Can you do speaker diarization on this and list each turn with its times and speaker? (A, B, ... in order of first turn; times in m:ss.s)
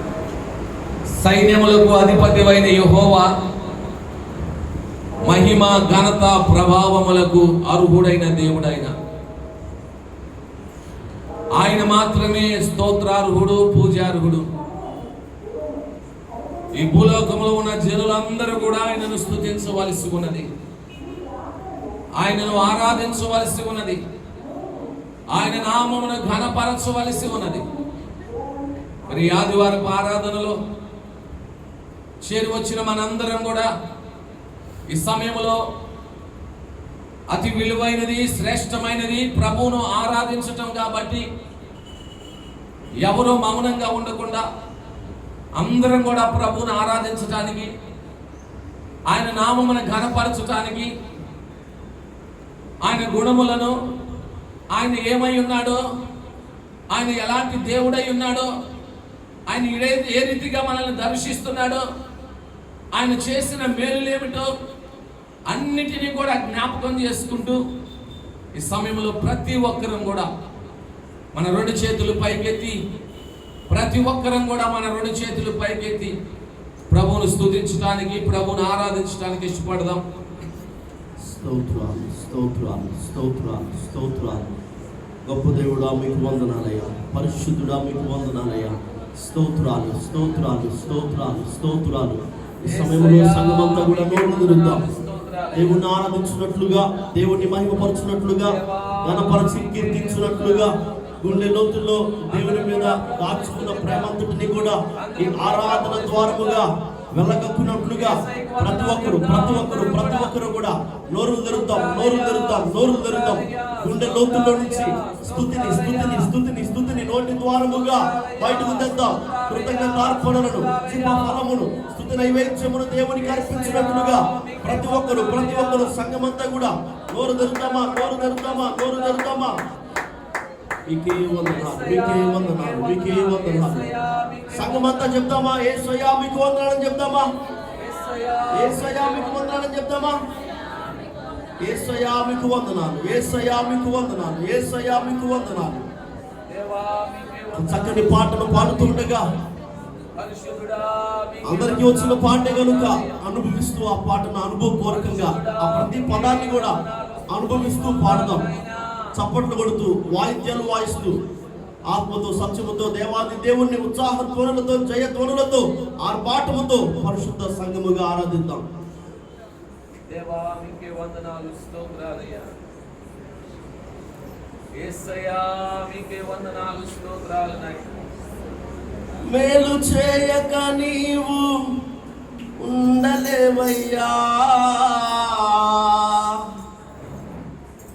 0:01.2-0:03.3 A
0:05.2-0:08.9 A
0:11.5-0:14.5 A
0:16.7-0:20.5 A
0:22.2-0:24.0 A
0:25.3-0:27.6 A
0:29.1-0:30.6 A
0:32.2-0:33.7 A
0:34.9-0:35.6 A
0:37.3-0:41.2 A
0:43.0-0:44.4 A
0:45.6-0:47.7 A
0:49.1-0:50.9 A
0:52.8-0:53.7 A
0:54.7-0:55.8 A
0:56.9-0:58.5 A
0:59.5-1:01.8 A
1:02.9-1:04.5 A
1:05.5-1:07.6 A
1:08.5-1:10.3 A
1:11.3-1:12.8 A
1:13.7-1:16.1 A
1:16.9-1:20.0 A
1:21.2-1:24.5 B
1:25.2-1:34.8 B
1:32.6-1:35.8 A
1:35.5-2:09.6 B
1:38.8-1:40.2 A
1:45.0-1:46.6 A
1:48.1-1:50.3 A
1:51.9-1:52.6 A
1:53.3-1:56.2 A
1:58.1-1:58.8 A
1:59.4-2:01.3 A
2:03.4-2:05.7 A
2:10.9-2:13.9 B
2:12.0-2:14.7 A
2:14.5-2:17.3 B
2:17.8-2:19.3 A
2:18.5-2:20.2 B
2:21.6-2:25.9 B
2:26.5-2:28.4 A
2:27.5-2:29.3 B
2:30.2-2:33.1 A
2:31.4-2:38.5 B
2:35.0-2:37.2 A
2:39.1-2:41.2 B
2:41.9-2:48.7 B
2:50.1-2:52.5 A
2:54.8-2:57.9 A
2:59.3-3:01.5 B
3:02.6-3:06.5 B